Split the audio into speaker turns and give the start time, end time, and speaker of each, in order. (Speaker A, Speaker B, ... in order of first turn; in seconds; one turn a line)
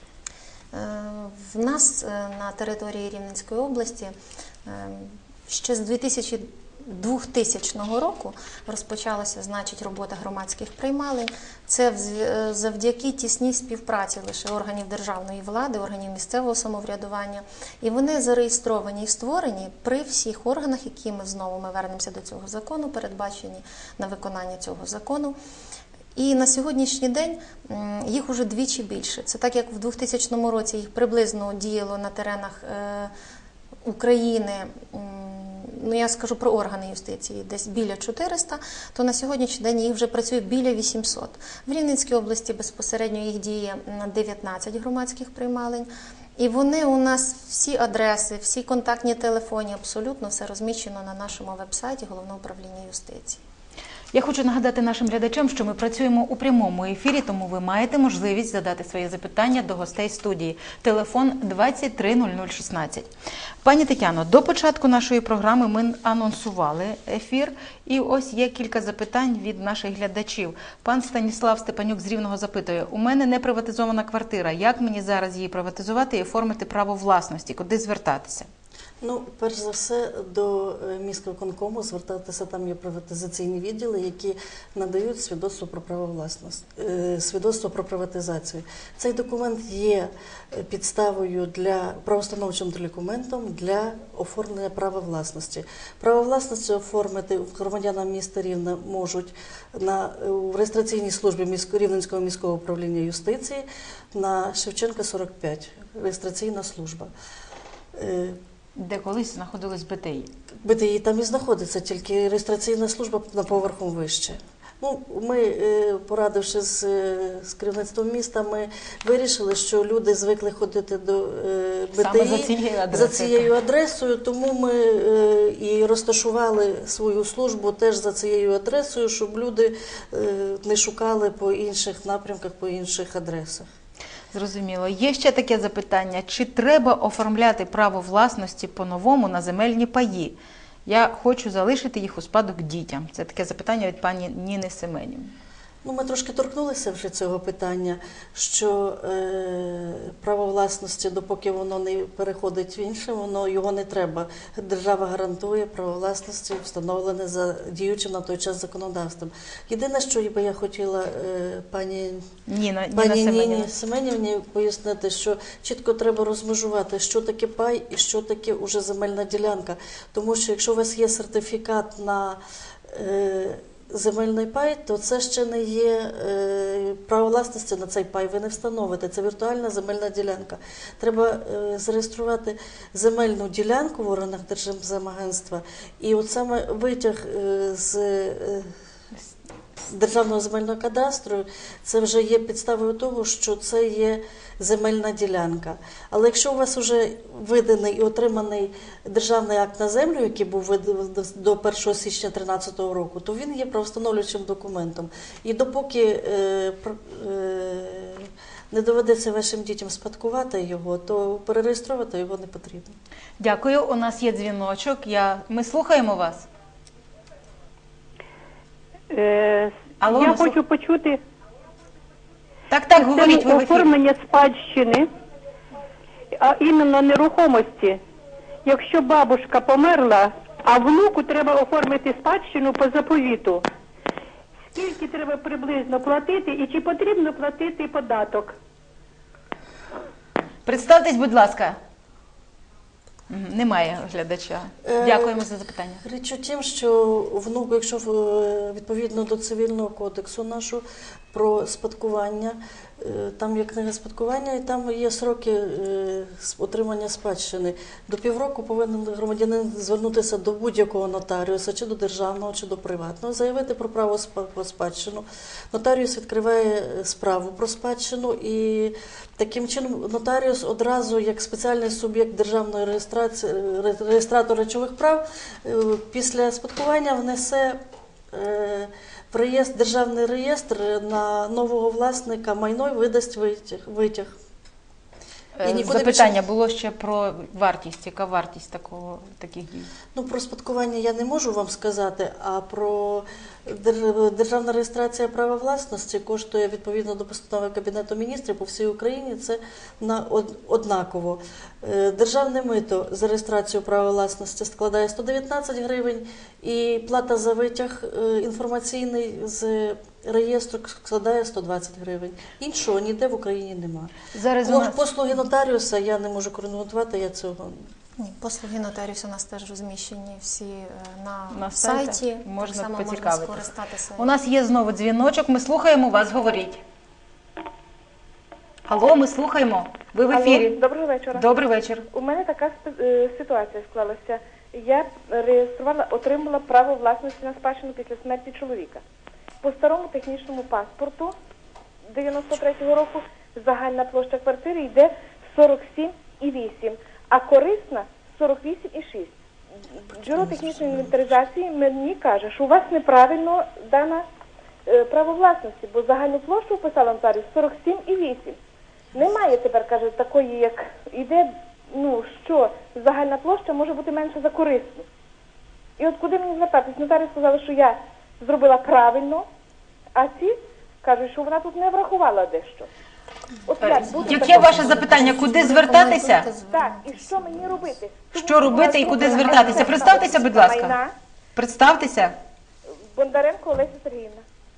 Speaker A: 0.7-25.4
Speaker A: 26.1-33.1
Speaker A: 33.8-53.4
Speaker B: 54.1-63.1
Speaker B: 63.6-78.5
Speaker C: 79.0-107.1
Speaker C: 107.9-108.4
Speaker B: 108.8-110.3
Speaker C: 110.6-133.7
Speaker B: 122.0-123.5
Speaker B: 134.3-145.3
Speaker C: 145.8-162.3
Speaker B: 162.5-163.7
Speaker C: 162.9-188.7
Speaker C: 189.9-213.0
Speaker B: 213.4-216.5
Speaker D: 219.1-221.2
Speaker B: 220.0-220.6
Speaker B: 222.7-223.9
Speaker D: 222.9-225.1
Speaker D: 226.3-228.0
Speaker D: 228.6-233.6
Speaker D: 234.7-238.5
Speaker B: 240.7-241.8
Speaker B: 243.3-246.0
Speaker C: 244.8-245.4
Speaker C: 246.0-277.8
Speaker C: 278.3-284.4
Speaker B: 285.6-289.9
Speaker C: 285.6-286.4
Speaker C: 290.1-317.9
Speaker B: 314.3-315.0
Speaker A: 318.2-324.3
Speaker B: 321.5-326.8
Speaker B: 328.9-330.8
Speaker E: 330.3-331.4
Speaker B: 331.3-332.1
Speaker E: 332.1-339.0
Speaker E: 339.6-341.3
Speaker E: 342.1-349.3
Speaker E: 350.1-354.2
Speaker C: 350.3-351.1
Speaker E: 354.9-358.6
Speaker E: 359.1-365.0
Speaker E: 366.0-369.4
Speaker E: 370.1-372.9
Speaker E: 373.7-375.1
Speaker B: 373.8-376.5
Speaker A: 374.0-378.0
Speaker E: 376.7-381.1
Speaker B: 378.4-380.9
Speaker A: 378.7-379.2
Speaker B: 381.6-382.4
Speaker E: 383.1-384.4